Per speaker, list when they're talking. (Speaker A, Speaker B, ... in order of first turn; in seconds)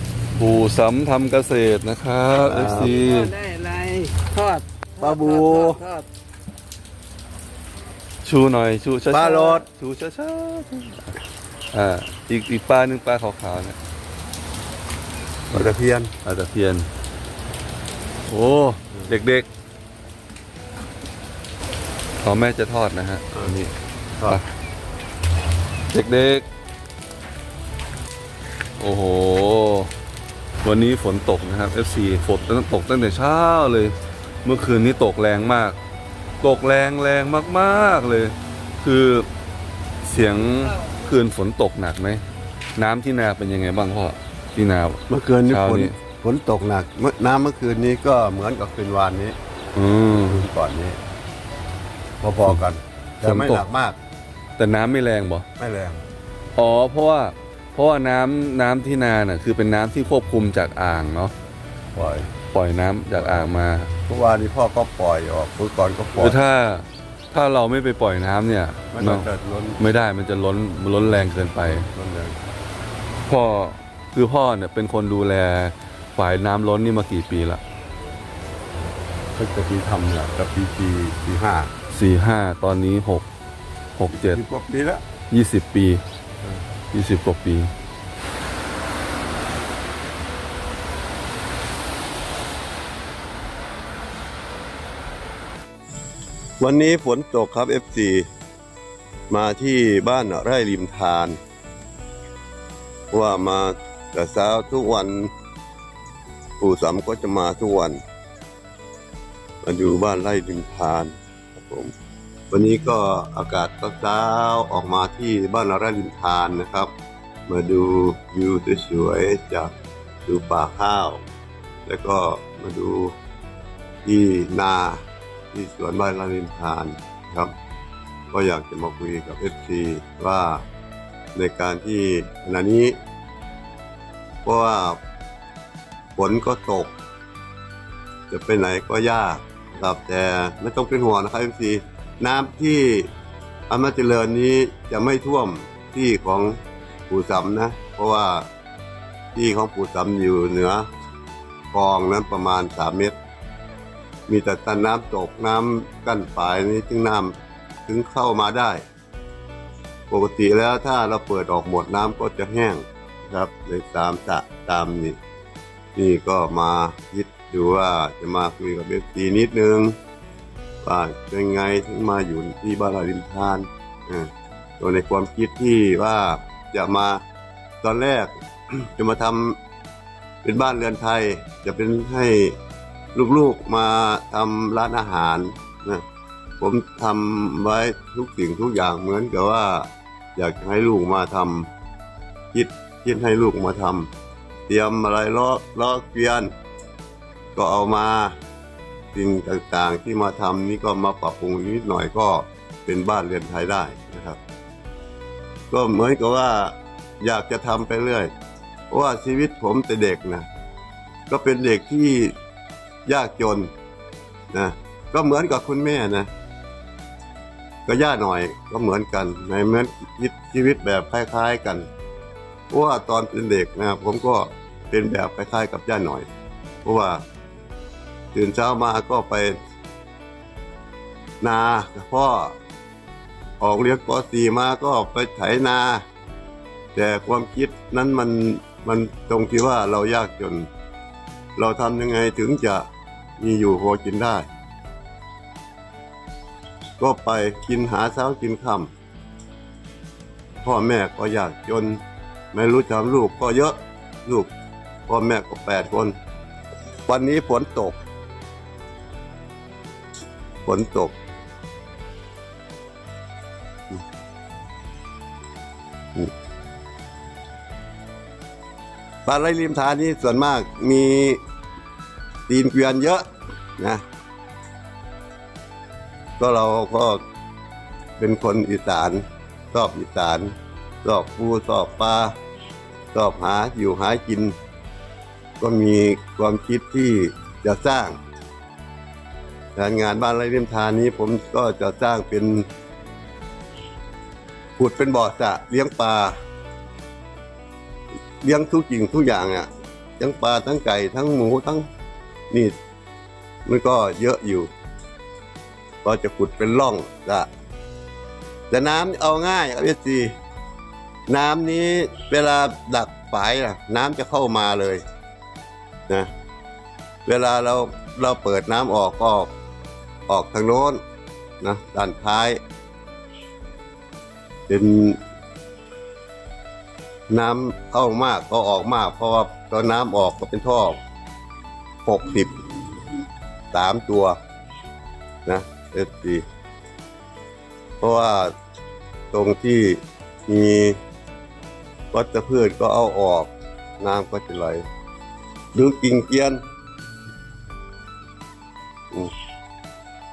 Speaker A: 0.4-3.3, 8.2-11.1, 11.7-13.8, 16.2-16.9, 18.3-19.5, 22.2-23.7, 25.9-26.5, 28.8-29.9, 30.6-35.8, 36.4-39.3, 40.0-42.2, 42.8-46.0, 49.8-50.4, 53.2-53.6, 54.6-55.5, 56.6-61.3, 62.5-63.9, 66.2-69.3, 69.8-71.9, 73.3-77.6, 81.9-83.3, 84.0-84.4, 85.3-86.0, 86.9-87.7
Speaker B: 2.4-3.0, 5.0-5.8, 9.1-9.7, 15.5-16.1, 45.1-49.4, 50.1-51.0, 52.2-54.0, 55.6-56.0, 61.9-62.3, 63.1-63.5, 64.1-66.4, 68.9-69.8, 71.6-72.4, 79.3-81.7, 84.1-85.0, 96.6-98.3, 99.3-101.4, 103.1-105.3, 106.6-108.0, 109.6-111.9, 112.5-116.9, 117.5-119.7, 120.3-121.2, 121.9-123.1, 124.0-125.0, 125.5-127.5, 128.3-130.6, 131.3-132.9, 134.4-135.0, 136.2-136.9, 138.3-143.1, 143.7-146.6, 147.1-148.5, 149.3-150.9, 151.7-153.2, 154.3-157.3, 157.9-158.8, 160.1-165.2, 165.9-170.0, 170.8-177.2, 177.8-179.6, 180.4-182.6, 183.2-186.0, 186.6-191.7, 192.5-194.1, 194.7-196.5, 197.6-198.3, 199.1-204.4, 205.7-208.3, 208.9-210.5, 211.3-212.3, 213.1-213.7, 214.5-216.3, 217.9-221.9, 222.7-226.3, 226.8-227.2, 228.3-229.6, 231.4-232.6, 233.6-236.0, 236.9-240.7, 241.6-242.8, 243.4-244.5, 247.0-248.9, 250.6-252.0, 252.5-254.5, 255.1-256.1, 257.1-258.0, 260.6-261.1, 269.2-271.4, 272.5-273.2, 273.8-274.0, 276.4-277.2, 278.2-282.3, 283.1-284.6, 285.6-288.2, 289.8-292.7, 294.8-296.4, 298.4-299.7, 300.2-301.9, 303.7-304.7, 306.0-307.5, 308.7-310.3, 311.3-315.0, 317.3-319.5, 320.3-321.0, 321.6-322.6, 324.7-325.2, 327.3-331.0, 332.1-332.6, 333.7-334.4, 335.5-336.4, 338.0-338.5, 339.3-341.0, 342.1-344.9, 345.7-346.6
Speaker C: 2.6-6.1